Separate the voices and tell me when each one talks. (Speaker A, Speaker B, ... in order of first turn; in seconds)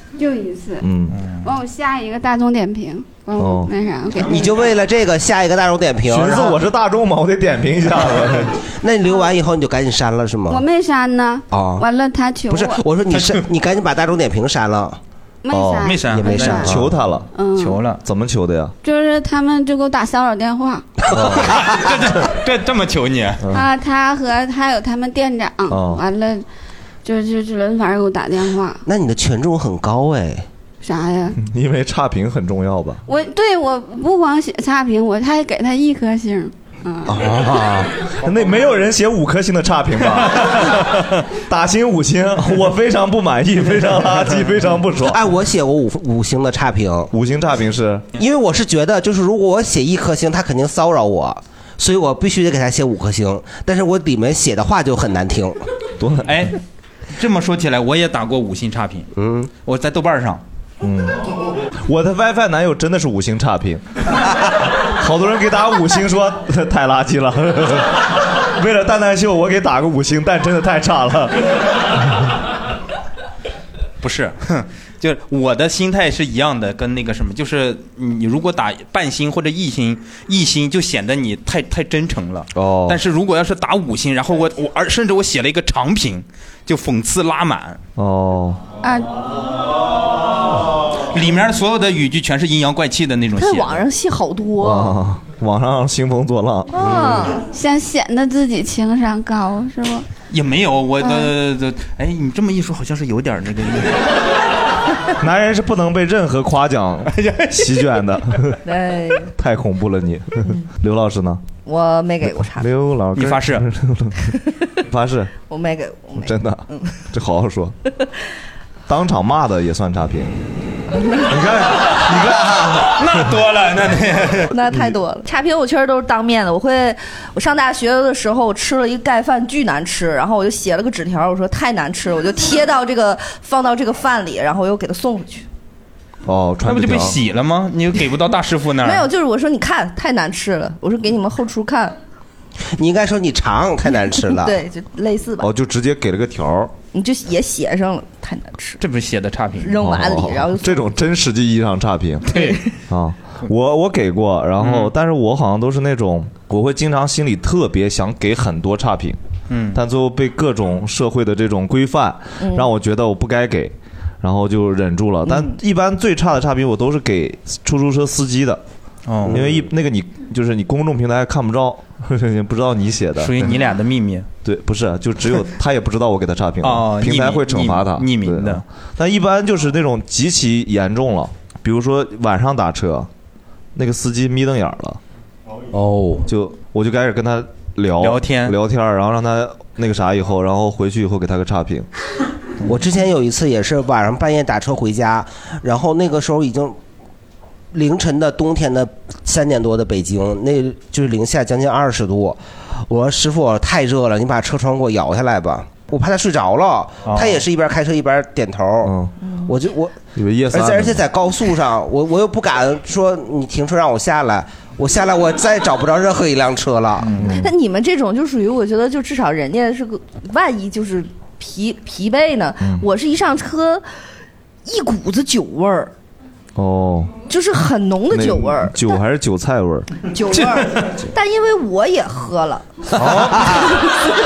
Speaker A: 0.2-0.8, 1.4-4.4, 10.5-12.8, 15.4-16.7, 17.3-17.8, 18.8-20.9, 23.5-26.4, 27.1-28.8, 30.8-31.4, 33.1-37.2, 88.8-89.2, 97.5-100.1
Speaker B: 0.8-1.2, 3.4-3.7, 6.1-8.6, 15.5-16.0, 16.6-17.3, 18.0-18.7, 21.1-21.6, 23.4-23.6, 25.7-26.0, 31.4-33.0, 38.2-40.9, 41.4-45.2, 47.1-48.1, 56.0-56.4, 60.8-61.2, 61.9-63.8, 64.8-71.4, 82.5-83.0, 88.0-88.6, 94.6-96.8, 105.2-108.6, 109.3-111.5, 112.5-115.3, 116.2-117.8, 118.9-120.3, 122.1-122.5, 136.3-137.2, 145.4-146.8, 149.8-159.2, 159.7-168.6, 169.2-173.6, 174.4-183.1, 183.8-185.0, 186.3-191.9, 208.8-209.1, 210.2-211.0, 217.2-217.5, 222.6-222.8, 226.6-227.2, 228.1-229.9
Speaker C: 1.1-1.4, 13.1-13.5, 15.8-16.7, 17.6-18.0, 21.5-23.4, 56.2-56.6, 57.1-59.1, 59.6-60.4, 74.0-87.8, 91.1-93.9, 100.3-104.0, 107.2-107.7, 113.2-113.7, 121.9-124.5, 136.7-139.1, 148.8-149.8, 154.6-154.9, 159.5-159.8, 169.1-169.4, 173.2-174.3, 176.6-178.6, 188.0-188.6, 207.1-207.4, 217.0-217.4, 230.3-230.9, 233.0-233.8
Speaker D: 4.2-6.6, 8.7-10.6, 11.5-11.8, 12.5-15.0, 16.1-16.9, 21.1-21.4, 28.9-30.5, 37.1-37.9, 45.0-47.1, 48.1-55.6, 59.2-59.5, 142.8-144.6, 185.8-186.2, 192.6-196.8, 197.7-208.9, 209.5-210.0, 210.5-217.2
Speaker E: 93.3-95.0, 96.7-97.4, 108.6-109.3, 111.7-112.7, 115.5-117.0, 124.5-135.5, 138.8-141.9, 144.2-145.5, 146.9-148.8, 149.6-150.9, 152.4-152.6, 162.4-162.7, 165.3-165.6, 217.2-223.8, 224.7-225.9, 227.3-228.9, 230.0-232.7, 233.4-234.2